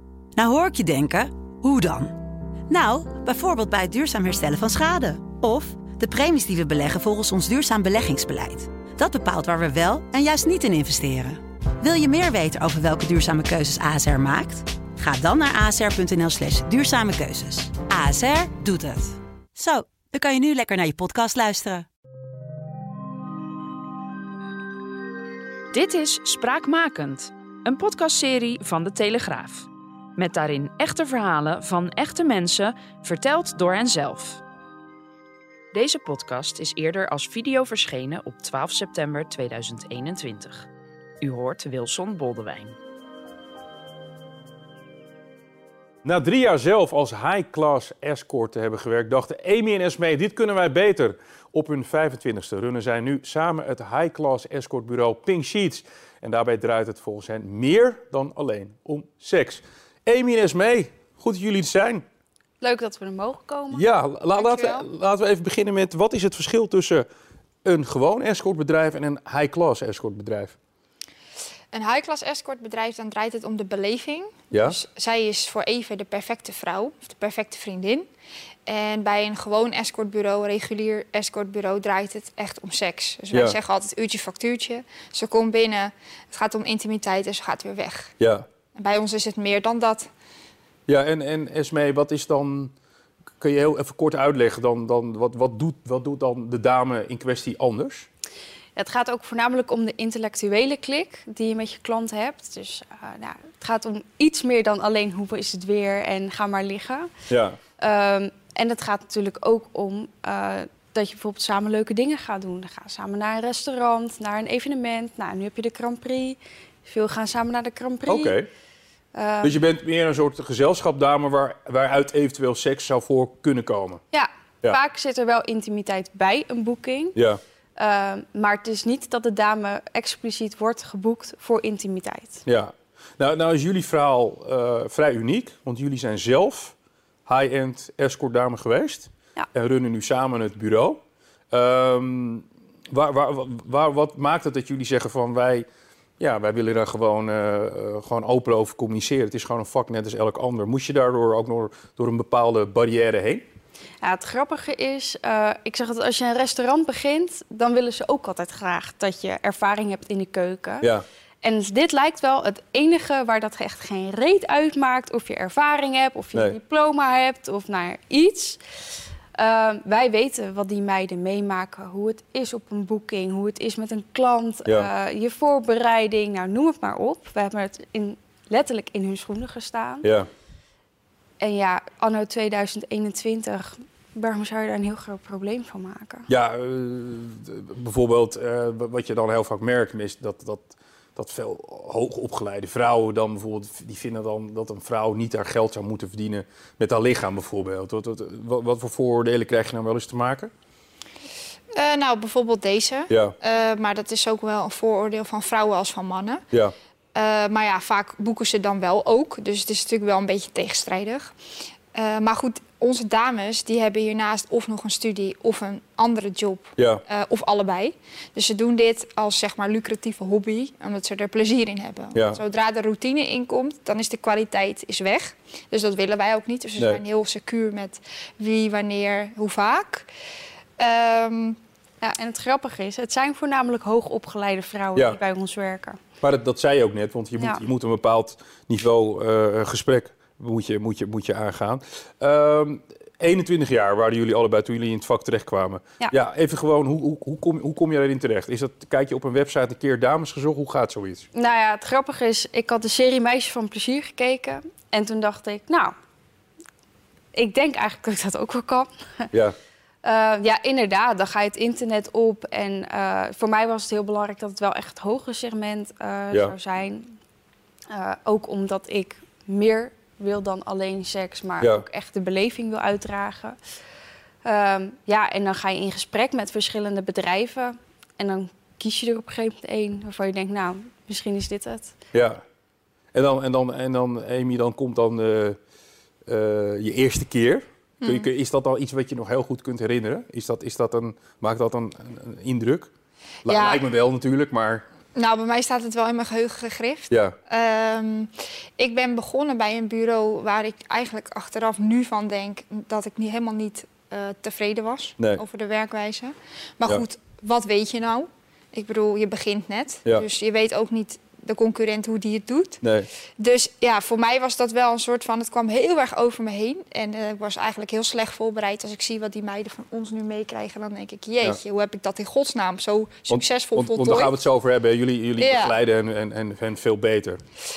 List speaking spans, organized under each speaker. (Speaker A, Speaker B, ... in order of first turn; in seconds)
Speaker A: 0.3-2.1, 2.7-21.9
Speaker B: 25.7-34.4, 35.7-40.7, 41.2-42.8
Speaker C: 46.0-62.0, 63.7-67.1, 67.6-70.5, 74.5-74.8, 83.3-83.6, 88.2-88.5, 90.9-92.7, 93.4-98.1, 107.3-107.6, 118.1-118.5, 119.4-124.0, 127.1-127.4, 132.4-136.7, 137.2-141.0, 141.5-145.7, 146.2-153.4, 180.0-180.3, 186.3-200.5, 203.1-203.3, 216.8-217.0, 222.1-222.4, 236.2-251.3, 282.1-282.4, 283.1-285.6, 286.3-292.9, 293.4-294.8, 297.1-297.4, 312.8-313.1, 323.3-327.4
Speaker D: 62.6-63.9, 64.5-64.8, 98.8-107.1, 107.8-118.4, 119.1-119.5, 124.1-127.1, 127.8-132.4, 154.0-160.9, 161.4-168.6, 169.3-180.1, 181.4-186.3, 232.0-236.0, 251.3-255.9, 257.3-259.3, 260.0-267.1, 267.9-273.6, 274.4-281.9
Speaker E: 71.7-78.1, 78.7-88.1, 88.7-90.1, 201.7-206.4, 207.1-211.3, 211.9-230.1, 230.8-231.6, 288.0-288.3, 293.4-293.8, 295.1-312.8, 313.4-324.4, 325.4-325.8